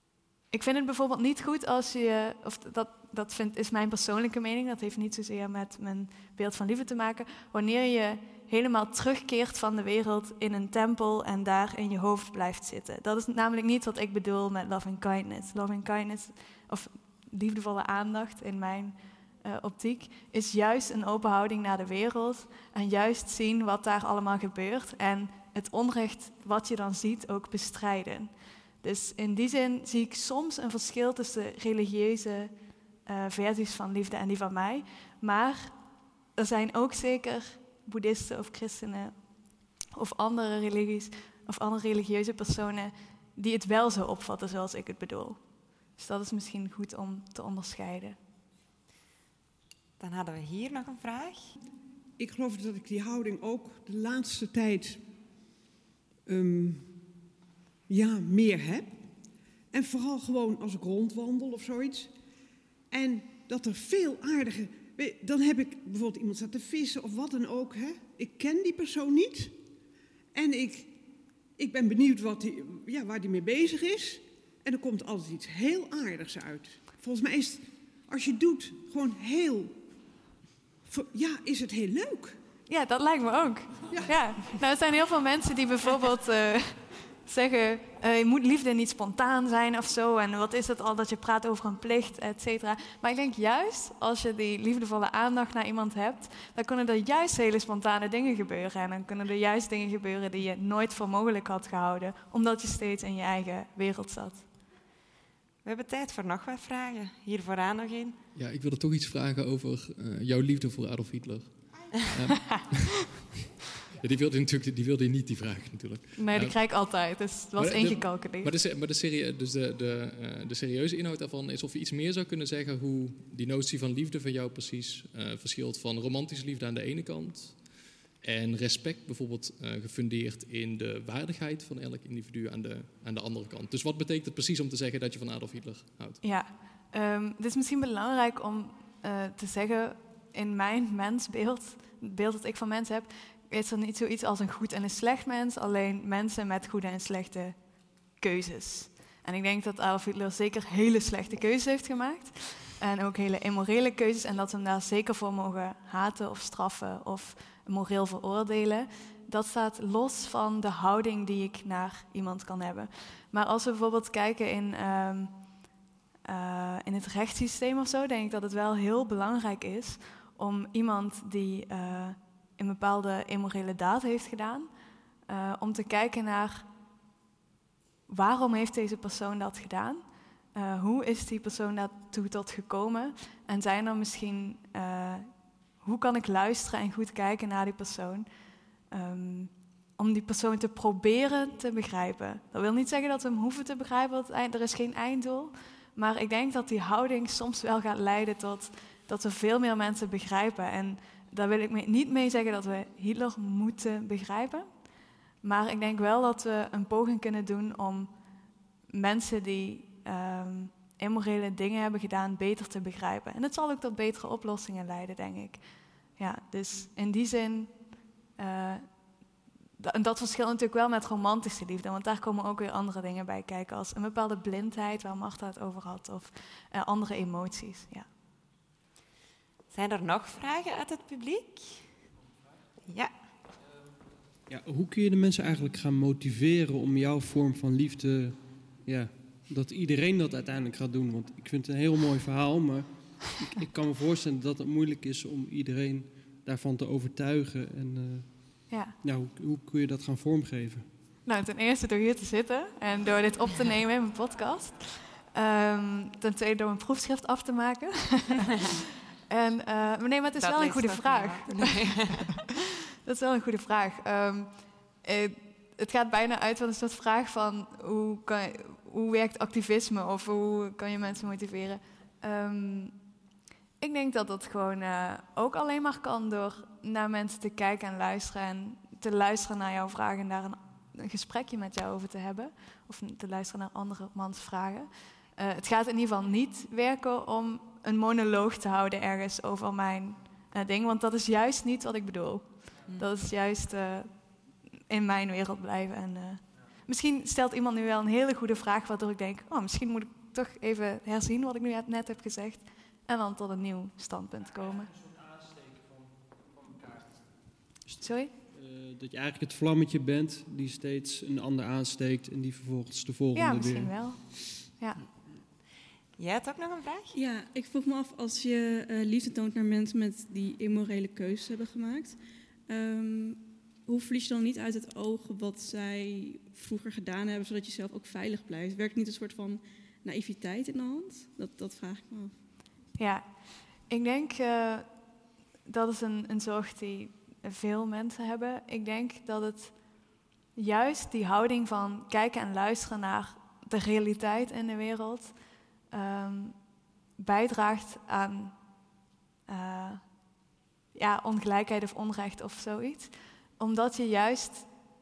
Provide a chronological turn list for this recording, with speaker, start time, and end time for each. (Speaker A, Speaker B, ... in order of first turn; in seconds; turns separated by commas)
Speaker A: 0.5-28.3, Speaker A: 28.8-32.5, Speaker A: 33.1-35.8, Speaker A: 36.4-39.1, Speaker A: 40.0-45.4, Speaker A: 46.0-48.2, Speaker B: 50.0-51.5, Speaker C: 52.2-55.0, Speaker C: 56.3-57.0, Speaker C: 57.9-59.0, Speaker C: 59.7-62.2, Speaker C: 62.9-69.6, Speaker C: 70.3-71.0, Speaker C: 71.6-79.8, Speaker C: 80.8-82.4, Speaker A: 82.7-104.5, Speaker C: 83.9-84.6, Speaker B: 105.7-108.2, Speaker D: 108.3-113.2, Speaker D: 114.0-116.6, Speaker A: 116.2-118.5, Speaker D: 117.6-127.7, Speaker D: 128.2-136.2, Speaker A: 136.2-147.6, Speaker A: 148.2-165.4, Speaker A: 166.3-174.7, Speaker A: 175.3-176.7, Speaker A: 178.1-180.0, Speaker A: 180.6-185.3, Speaker A: 185.8-188.3, Speaker A: 188.9-204.7, Speaker A: 205.4-208.1, Speaker A: 208.9-215.6, Speaker A: 216.2-217.9, Speaker A: 218.4-218.9, Speaker A: 219.8-228.1, Speaker B: 229.7-231.9, Speaker B: 232.9-233.1, Speaker E: 234.5-250.9, Speaker A: 248.7-248.9, Speaker A: 251.3-258.7, Speaker A: 259.3-262.2, Speaker B: 260.4-262.4, Speaker A: 263.1-273.0, Speaker A: 273.8-294.1, Speaker A: 294.9-304.9, Speaker A: 308.0-308.3, Speaker E: 308.5-314.0, Speaker A: 313.4-315.0, Speaker B: 316.2-317.1, Speaker F: 317.1-332.4, Speaker A: 333.0-333.3, Speaker A: 333.9-334.9, Speaker A: 335.7-339.8, Speaker A: 340.6-345.3, Speaker A: 345.9-346.6, Speaker A: 347.2-348.6, Speaker A: 349.5-350.0, Speaker A: 350.9-354.7